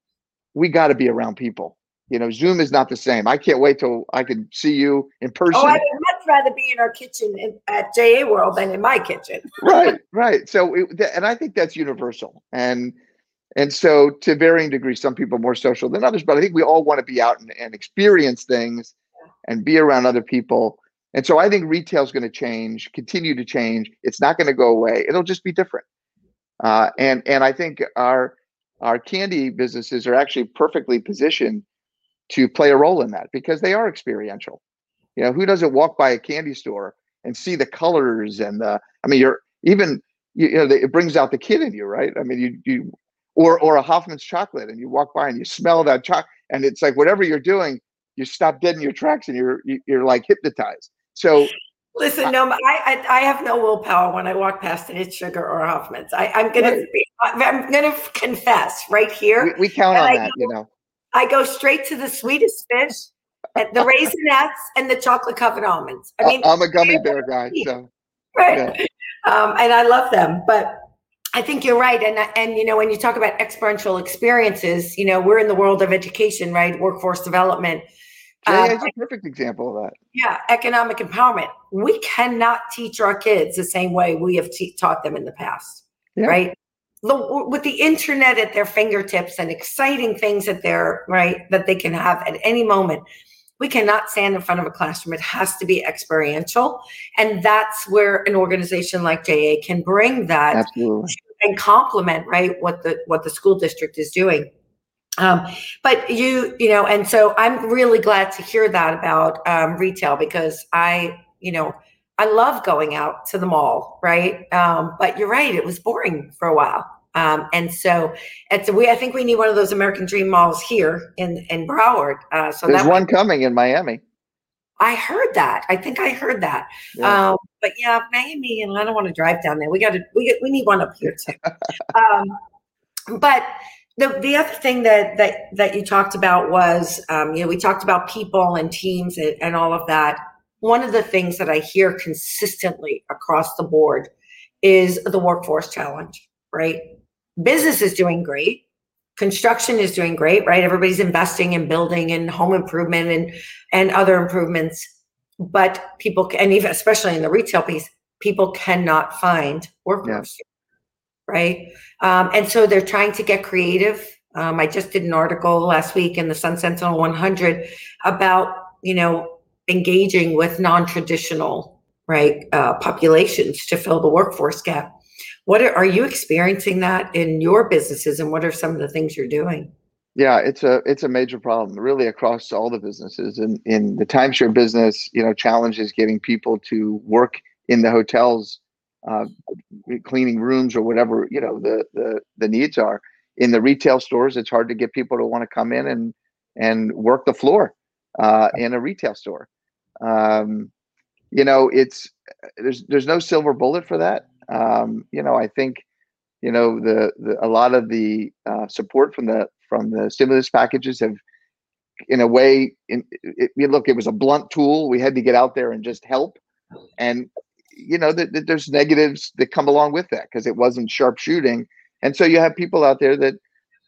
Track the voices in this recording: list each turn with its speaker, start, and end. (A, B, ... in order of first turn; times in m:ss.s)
0:00.5-0:05.8 A
0:05.5-0:09.9 B
0:09.6-0:12.9 A
0:13.6-0:18.9 A
0:19.4-0:25.8 A
0:26.6-0:31.6 A
0:32.3-0:34.6 A
0:35.2-0:51.5 A
0:52.0-1:00.5 B
0:56.6-0:56.8 A
0:59.4-1:00.7 A
1:01.1-1:07.7 B
1:06.2-1:07.9 A
1:08.4-1:17.8 B
1:08.5-1:08.8 A
1:18.4-1:19.9 A
1:18.4-1:18.9 B
1:20.1-1:33.0 B
1:33.6-1:44.5 B
1:40.5-1:41.1 A
1:45.2-2:03.0 B
2:02.7-2:04.0 A
2:04.8-2:11.4 B
2:07.0-2:07.2 A
2:11.9-2:12.4 B
2:13.1-2:24.1 B
2:24.6-2:26.8 B
2:27.4-2:28.6 B
2:29.2-2:34.9 B
2:35.4-2:40.4 B
2:41.3-2:54.9 B
2:55.4-2:59.7 B
3:00.2-3:09.3 A
3:09.8-3:19.5 A
3:20.0-3:20.7 A
3:21.3-3:25.8 A
3:26.4-3:31.2 A
3:32.1-3:36.4 A
3:37.0-3:43.4 A